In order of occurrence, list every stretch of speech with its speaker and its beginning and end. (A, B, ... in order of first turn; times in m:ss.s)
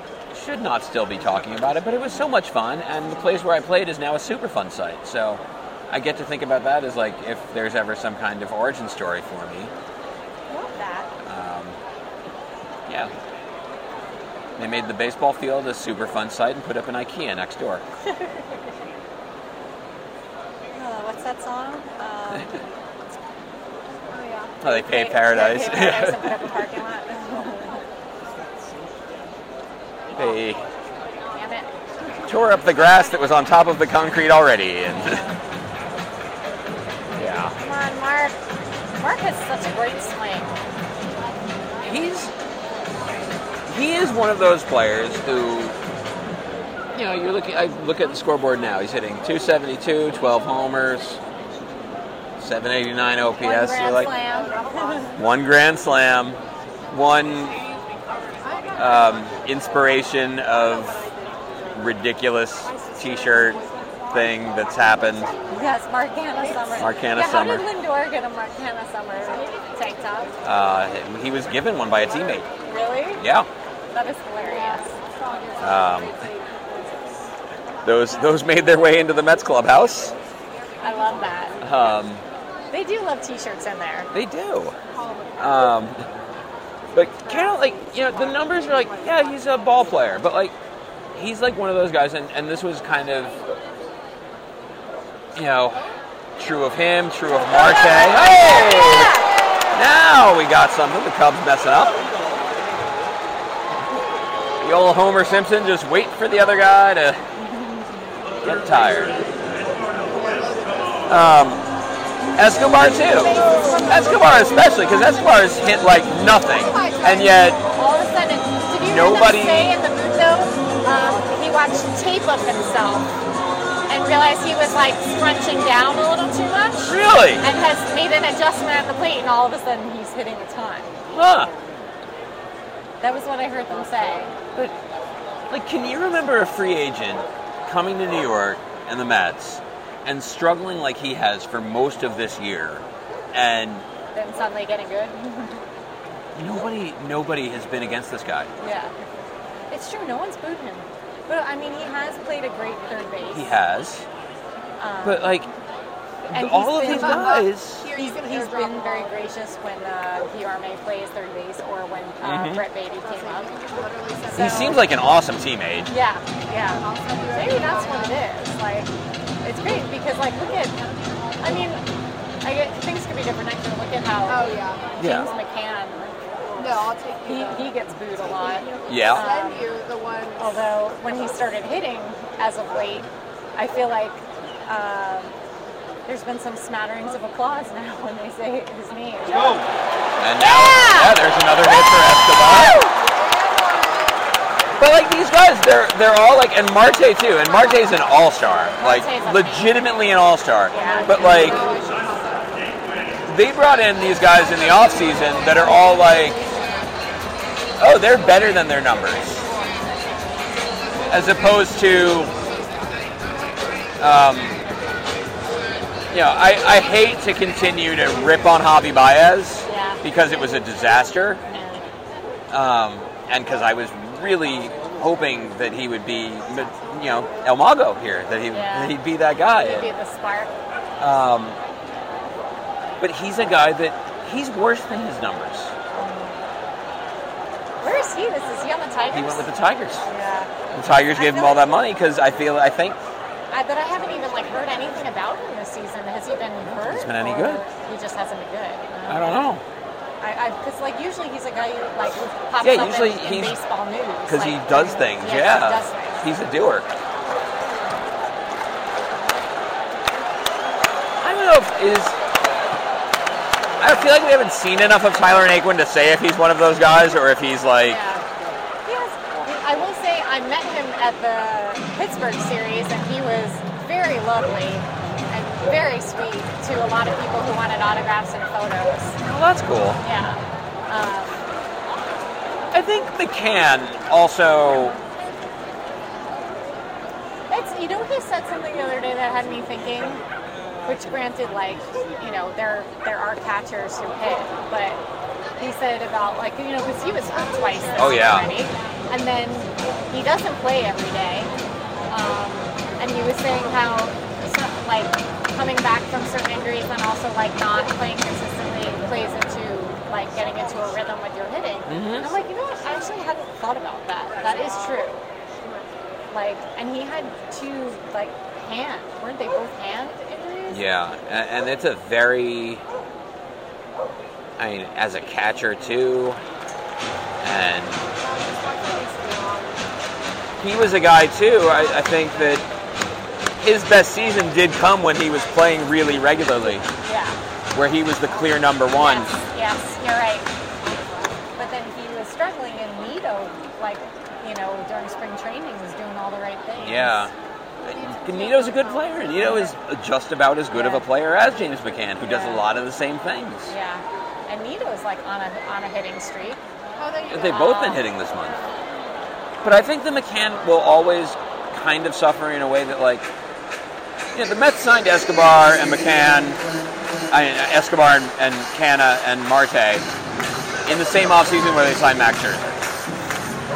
0:00.3-0:09.7 A
0:10.5-0:11.1 B
0:11.2-0:11.8 A
0:12.9-0:13.1 A
0:14.6-0:17.8 A
0:20.7-0:22.6 B
0:24.1-0:24.6 C
0:24.6-0:26.5 A
0:24.6-0:27.8 B
0:30.1-0:30.6 A
0:31.3-0:31.7 B
0:32.2-0:35.2 A
0:34.9-0:35.4 B
0:37.2-0:37.5 A
0:37.5-0:38.4 B
0:39.0-0:40.6 B
0:41.8-0:42.3 A
0:43.7-0:45.8 A
0:46.9-0:51.2 A
0:52.4-0:54.1 A
0:53.4-0:55.2 B
0:54.0-0:55.2 C
0:55.2-0:57.6 A
0:58.3-1:01.9 C
0:58.8-1:01.1 A
1:01.7-1:05.3 A
1:02.6-1:05.4 C
1:05.5-1:10.3 B
1:06.8-1:07.7 A
1:10.4-1:12.5 A
1:12.6-1:13.2 B
1:13.2-1:13.5 A
1:13.9-1:14.9 B
1:14.5-1:17.3 C
1:15.6-1:16.2 A
1:17.8-1:20.1 A
1:20.8-1:21.6 B
1:21.6-1:22.2 A
1:22.7-1:24.1 B
1:24.1-1:24.8 A
1:24.9-1:25.7 C
1:25.4-1:26.0 A
1:26.9-1:30.5 A
1:27.1-1:29.9 C
1:31.1-1:33.4 A
1:35.4-1:35.8 A
1:36.4-1:39.2 A
1:37.4-1:39.4 B
1:39.7-1:42.0 A
1:44.6-1:47.2 A
1:48.4-1:49.2 A
1:50.1-1:51.2 C
1:51.1-1:51.6 A
1:52.4-1:57.6 A
1:53.0-1:55.3 C
1:56.4-1:57.6 C
1:57.6-2:03.1 B
1:58.8-1:59.7 A
2:03.9-2:10.9 B
2:06.9-2:07.4 A
2:11.1-2:11.5 A
2:13.0-2:14.4 B
2:15.5-2:23.9 A
2:24.1-2:25.6 B
2:26.4-2:28.5 A
2:28.6-2:28.9 B
2:29.7-2:33.5 B
2:33.3-2:34.0 A
2:34.8-2:35.3 B
2:35.0-2:35.5 A
2:36.2-2:37.9 A
2:36.3-2:43.6 B
2:36.9-2:39.2 C
2:42.2-2:42.6 A
2:43.0-2:44.9 C
2:44.2-2:44.8 B
2:44.3-2:45.9 A
2:45.9-2:48.9 B
2:46.5-2:48.2 C
2:49.4-2:50.8 B
2:51.4-2:51.8 B
2:52.4-2:56.1 B
2:54.3-2:55.0 C
2:55.0-2:55.3 A
2:56.5-3:00.6 C
2:57.2-2:59.7 B
2:58.9-2:59.3 A
3:00.4-3:05.4 B
3:06.1-3:09.6 B
3:10.2-3:12.8 A
3:10.4-3:13.0 B
3:13.0-3:14.2 C
3:14.8-3:21.6 A
3:18.8-3:19.7 B
3:20.7-3:21.5 B
3:20.7-3:22.8 C
3:23.2-3:26.4 A
3:25.6-3:26.6 C
3:27.8-3:29.4 A
3:31.1-3:32.3 A
3:34.0-3:34.6 A
3:36.1-3:41.4 A
3:39.6-3:40.0 B
3:41.5-3:41.9 B
3:42.5-3:49.9 A
3:48.5-3:49.0 B
3:49.6-3:50.5 B
3:51.0-3:51.6 A
3:53.0-3:55.7 A
3:55.9-3:56.4 B
3:57.8-3:59.5 B
3:59.1-4:00.0 A
4:00.0-4:00.5 B
4:00.7-4:03.0 A
4:01.1-4:01.8 B
4:03.5-4:09.4 B
4:06.8-4:07.6 A
4:09.1-4:09.6 A
4:10.2-4:16.3 B
4:12.6-4:13.6 A
4:14.3-4:16.9 A
4:21.2-4:22.2 A
4:23.8-4:28.0 A
4:27.8-4:28.2 B
4:28.9-4:39.2 B
4:39.2-4:40.0 A
4:40.0-4:41.5 B
4:42.7-4:45.0 A
4:47.5-4:50.2 B
4:50.8-4:55.0 B
4:55.6-5:01.5 B
4:58.0-4:58.5 A
5:02.1-5:15.2 B
5:11.9-5:12.3 A
5:14.4-5:15.0 C
5:15.6-5:15.9 C
5:16.3-5:20.8 B
5:20.7-5:22.8 A
5:24.6-5:26.4 A
5:27.4-5:28.0 A
5:28.1-5:29.9 C
5:30.6-5:32.6 A
5:33.6-5:36.9 A
5:37.0-5:37.4 B
5:37.7-5:39.3 A
5:39.0-5:40.5 B
5:41.6-5:47.3 B
5:46.8-5:47.3 A
5:47.8-5:49.4 C
5:47.8-5:53.7 A
5:49.3-5:49.7 B
5:50.7-5:51.0 B
5:52.2-5:52.7 B
5:53.7-5:56.6 B
5:57.0-5:58.9 C
5:57.2-5:58.1 B
5:57.3-5:58.6 A
5:59.6-6:03.3 A
6:04.3-6:06.6 A
6:07.3-6:10.1 A
6:10.8-6:13.0 A